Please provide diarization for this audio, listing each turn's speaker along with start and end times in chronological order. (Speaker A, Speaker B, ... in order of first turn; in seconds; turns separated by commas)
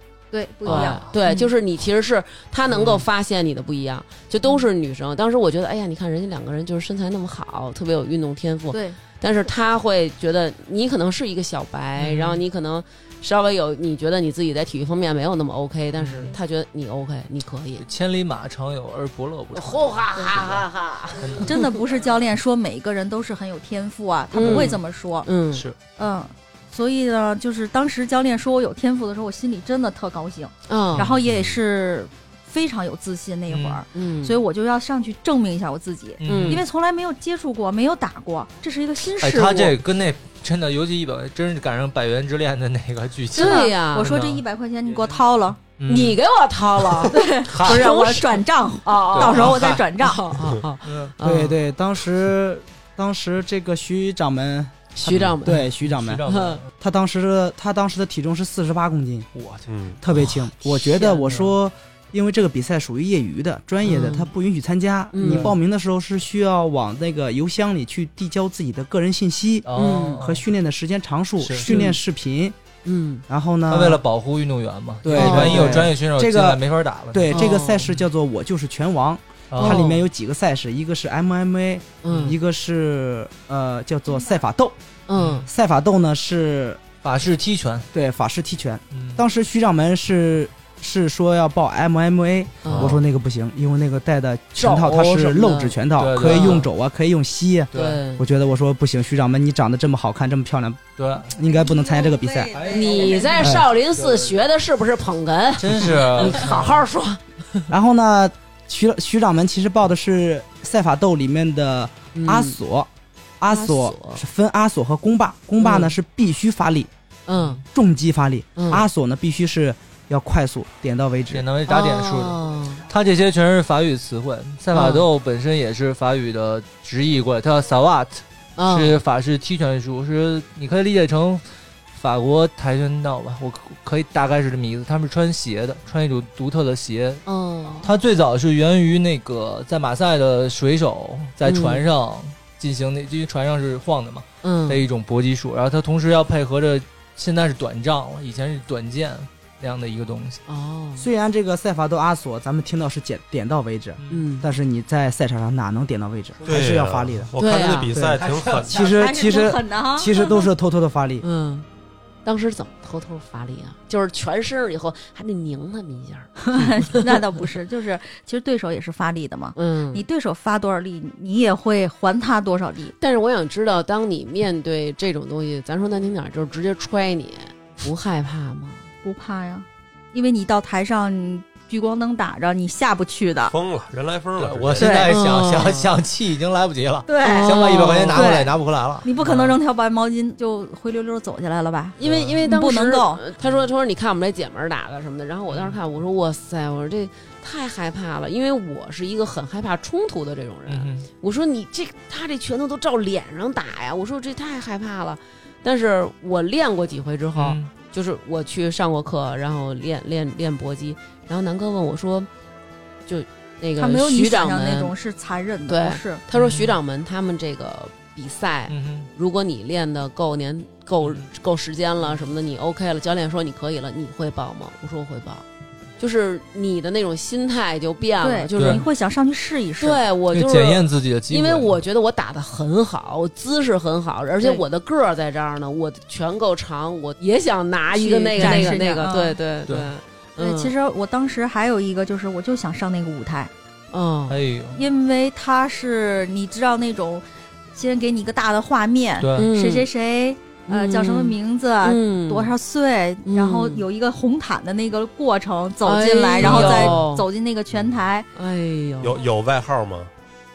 Speaker A: 0.3-1.5, Speaker B: 0.7-17.9, Speaker C: 0.7-1.0, Speaker C: 2.7-3.0, Speaker A: 8.7-9.0, Speaker C: 12.0-12.4, Speaker C: 16.0-16.3, Speaker C: 17.8-20.6, Speaker B: 19.5-21.6, Speaker C: 21.2-21.5, Speaker A: 21.4-25.3, Speaker B: 24.3-25.7, Speaker C: 25.5-25.8, Speaker A: 26.0-39.8, Speaker B: 30.7-31.1, Speaker D: 31.2-31.6, Speaker C: 33.5-33.8, Speaker B: 33.9-34.4, Speaker C: 36.2-36.6, Speaker B: 36.2-36.6, Speaker C: 39.2-44.4, Speaker B: 43.3-44.2, Speaker A: 43.3-45.6, Speaker C: 45.8-46.2, Speaker B: 45.9-51.6, Speaker C: 46.9-48.0, Speaker A: 47.1-50.2, Speaker C: 49.1-49.9, Speaker C: 50.8-51.1, Speaker E: 51.2-56.3, Speaker B: 55.0-55.7, Speaker C: 55.5-56.7, Speaker B: 56.3-56.6, Speaker E: 56.8-59.3, Speaker C: 59.4-60.5, Speaker D: 59.7-60.0, Speaker E: 60.0-72.6, Speaker B: 60.9-61.5, Speaker B: 63.8-64.3, Speaker B: 65.1-65.5, Speaker C: 65.2-65.5, Speaker C: 69.7-70.4, Speaker B: 69.7-70.2, Speaker C: 71.4-71.7, Speaker B: 71.6-72.0, Speaker B: 72.8-73.2, Speaker E: 73.3-74.0, Speaker C: 73.7-77.6, Speaker E: 75.0-84.8, Speaker B: 75.1-75.9, Speaker B: 77.3-77.9, Speaker C: 79.5-80.0, Speaker B: 79.6-80.0, Speaker B: 82.0-82.4, Speaker C: 82.1-82.4, Speaker B: 85.1-85.5, Speaker C: 85.2-85.5, Speaker E: 85.4-86.8, Speaker C: 87.0-87.9, Speaker E: 87.9-102.6, Speaker C: 88.9-89.2, Speaker B: 92.6-93.0, Speaker C: 92.7-93.0, Speaker B: 94.6-96.7, Speaker C: 96.0-96.7, Speaker C: 97.7-98.0, Speaker B: 97.7-98.2, Speaker C: 101.0-101.3, Speaker A: 101.4-103.5, Speaker C: 102.5-104.4, Speaker B: 102.7-107.7, Speaker E: 103.4-103.7, Speaker C: 105.6-106.8, Speaker E: 107.7-116.9, Speaker B: 112.2-112.6, Speaker B: 113.5-114.2, Speaker B: 115.6-115.9, Speaker B: 117.3-117.6, Speaker C: 117.4-117.6, Speaker E: 117.7-121.5, Speaker B: 118.6-118.9, Speaker C: 121.3-137.2, Speaker B: 121.7-122.8, Speaker B: 124.7-125.1, Speaker B: 128.6-129.0, Speaker B: 137.3-137.9, Speaker C: 137.8-150.4, Speaker B: 141.4-141.8, Speaker B: 144.4-144.8, Speaker B: 150.5-151.1, Speaker E: 151.0-157.3, Speaker B: 154.1-154.5, Speaker D: 156.4-158.8, Speaker B: 157.4-158.0, Speaker E: 157.9-161.2, Speaker C: 158.2-158.8, Speaker A: 158.8-160.5, Speaker B: 161.2-161.7, Speaker B: 162.2-167.2, Speaker A: 166.4-172.9, Speaker B: 169.6-170.1, Speaker B: 173.0-178.9, Speaker A: 179.0-183.5, Speaker D: 183.5-185.0, Speaker C: 184.4-189.6, Speaker A: 184.8-185.2, Speaker B: 185.0-185.9, Speaker A: 187.1-193.2, Speaker B: 187.2-188.3, Speaker B: 192.0-212.3, Speaker C: 192.0-192.4, Speaker C: 195.5-195.8, Speaker C: 200.7-201.1, Speaker C: 207.4-207.7, Speaker B: 213.1-214.9, Speaker A: 213.8-216.2, Speaker B: 215.7-225.4, Speaker C: 216.3-216.8, Speaker C: 218.7-219.1, Speaker B: 226.0-228.9, Speaker A: 228.2-230.1, Speaker C: 228.6-228.8, Speaker B: 229.8-240.7, Speaker C: 230.3-231.8, Speaker A: 237.9-239.4, Speaker C: 238.4-238.7, Speaker A: 240.4-243.5, Speaker B: 243.9-244.4, Speaker C: 244.3-244.8, Speaker A: 244.7-258.3, Speaker C: 249.2-249.5, Speaker B: 249.4-249.9, Speaker B: 250.7-252.5, Speaker B: 253.2-253.8, Speaker B: 255.8-257.3, Speaker C: 256.4-257.0, Speaker B: 258.4-259.2, Speaker D: 259.0-260.1